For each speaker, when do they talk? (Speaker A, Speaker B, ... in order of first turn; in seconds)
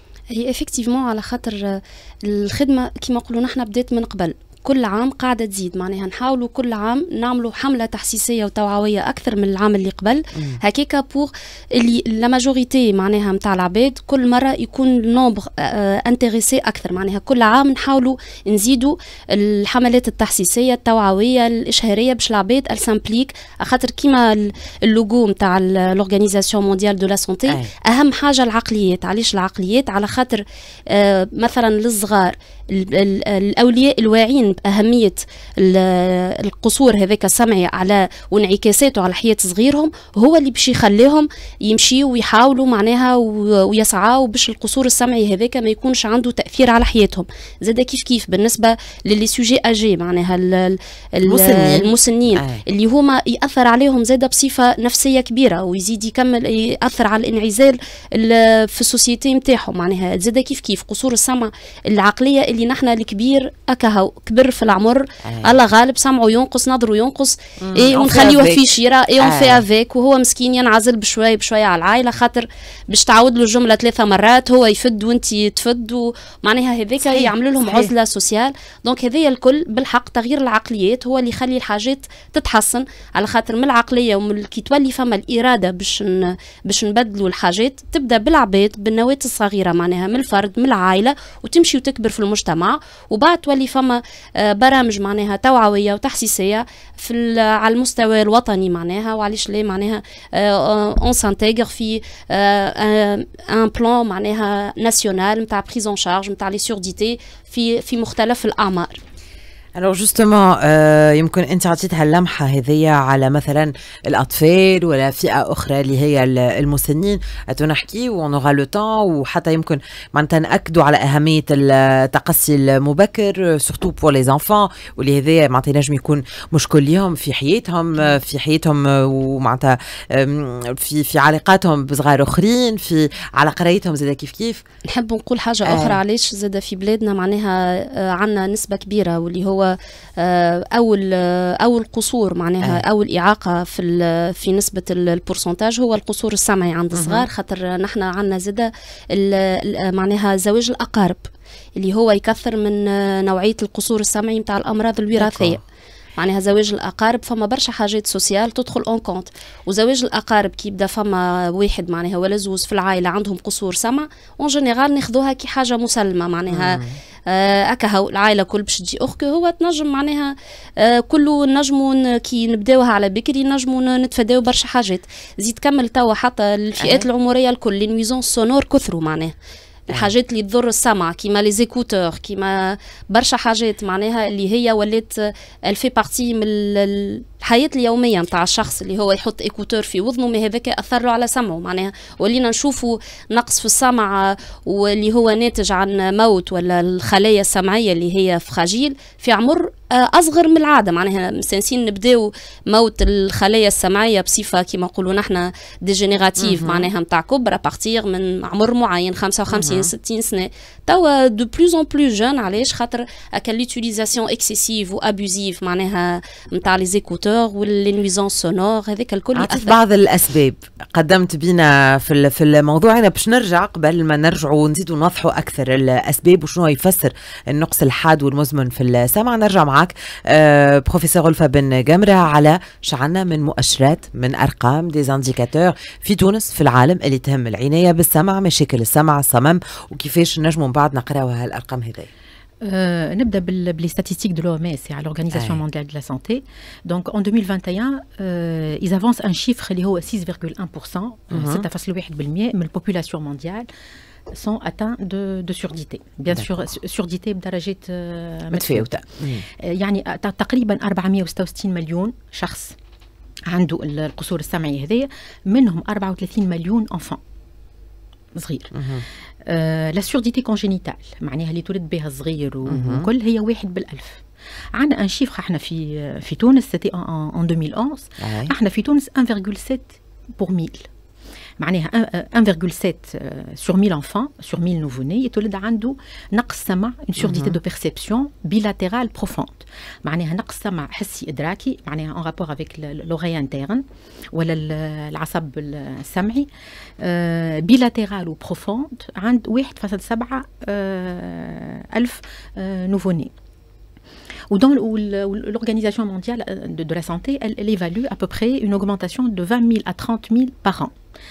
Speaker A: 0.3-109.0, 134.9-155.6, 156.2-179.3, 179.9-219.8
Speaker B: 27.5-27.7, 51.2-52.6, 65.2-65.6, 67.6-68.6, 69.2-69.6, 109.8-134.6, 135.6-136.0, 146.9-147.3, 155.2-155.6, 166.5-167.0, 176.8-177.1, 206.4-206.9, 209.5-209.9, 219.3-242.1, 245.3-245.6, 251.3-251.7, 258.5-259.4, 268.7-269.0, 272.7-273.1, 278.2-278.5, 287.2-287.6
Speaker C: 77.0-77.9, 242.6-253.7, 254.3-262.8, 263.5-267.2, 268.3-268.8, 269.4-274.2, 274.7-280.9, 281.6-296.5, 297.0-303.3, 304.5-310.9